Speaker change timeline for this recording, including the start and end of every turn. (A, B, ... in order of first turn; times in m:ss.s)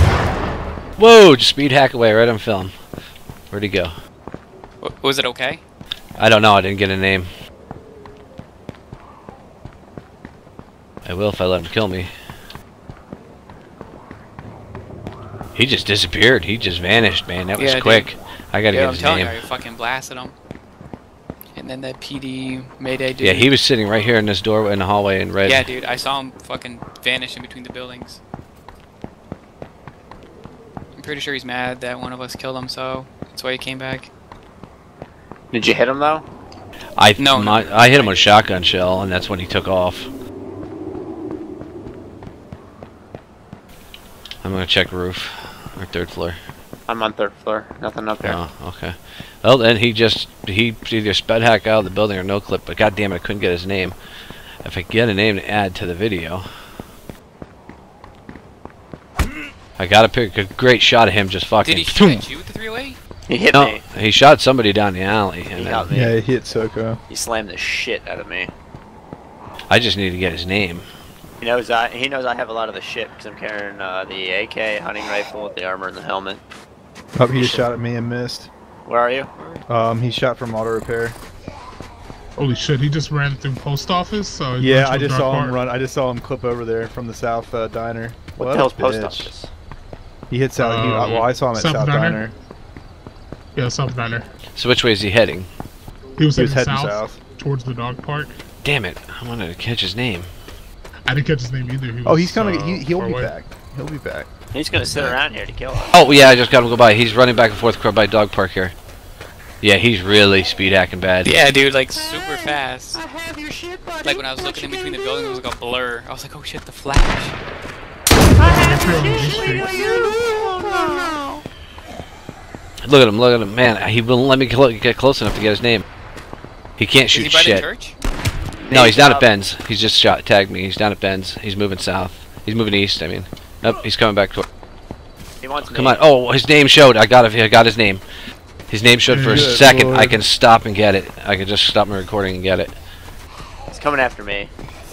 0:01.0-0:02.7 A
0:03.5-0:03.9 A
0:04.8-0:05.6 B
0:06.2-0:07.3 A
0:11.0-0:12.1 A
0:15.5-0:19.4 A
0:17.6-0:18.1 B
0:18.7-0:20.4 B
0:21.5-0:23.5 B
0:23.2-0:25.7 A
0:25.4-0:28.2 B
0:30.9-0:34.1 B
0:35.5-0:36.2 C
0:37.0-0:40.1 A
0:37.2-0:38.3 B
0:44.4-0:46.4 A
0:46.9-0:48.4 C
0:48.2-0:54.0 A
0:54.6-0:56.5 A
0:59.8-1:02.3 A
1:01.6-1:03.0 B
1:03.3-1:03.8 C
1:03.5-1:05.9 A
1:05.6-1:06.2 C
1:05.9-1:07.0 D
1:07.1-1:08.5 C
1:09.7-1:10.9 A
1:11.4-1:16.4 C
1:17.2-1:18.5 D
1:17.3-1:17.7 C
1:18.9-1:19.3 C
1:19.7-1:21.2 D
1:22.4-1:25.6 E
1:24.6-1:29.3 D
1:28.4-1:29.5 C
1:30.3-1:32.4 D
1:30.6-1:32.2 E
1:33.6-1:34.3 E
1:34.5-1:35.5 A
1:36.2-1:38.4 E
1:36.4-1:37.2 D
1:38.6-1:40.3 A
1:41.1-1:43.3 E
1:42.0-1:44.3 D
1:44.5-1:46.0 C
1:44.9-1:45.2 D
1:45.9-1:48.8 A
1:49.6-1:51.3 A
1:51.2-1:53.0 B
1:54.0-1:57.4 B
1:58.4-1:59.8 E
2:02.8-2:05.8 A
2:06.8-2:07.7 A
2:07.1-2:08.0 B
2:08.7-2:09.3 C
2:08.7-2:14.5 A
2:15.4-2:16.0 C
2:15.7-2:18.0 A
2:18.7-2:22.7 A
2:19.1-2:19.5 E
2:19.2-2:20.2 D
2:23.7-2:24.5 C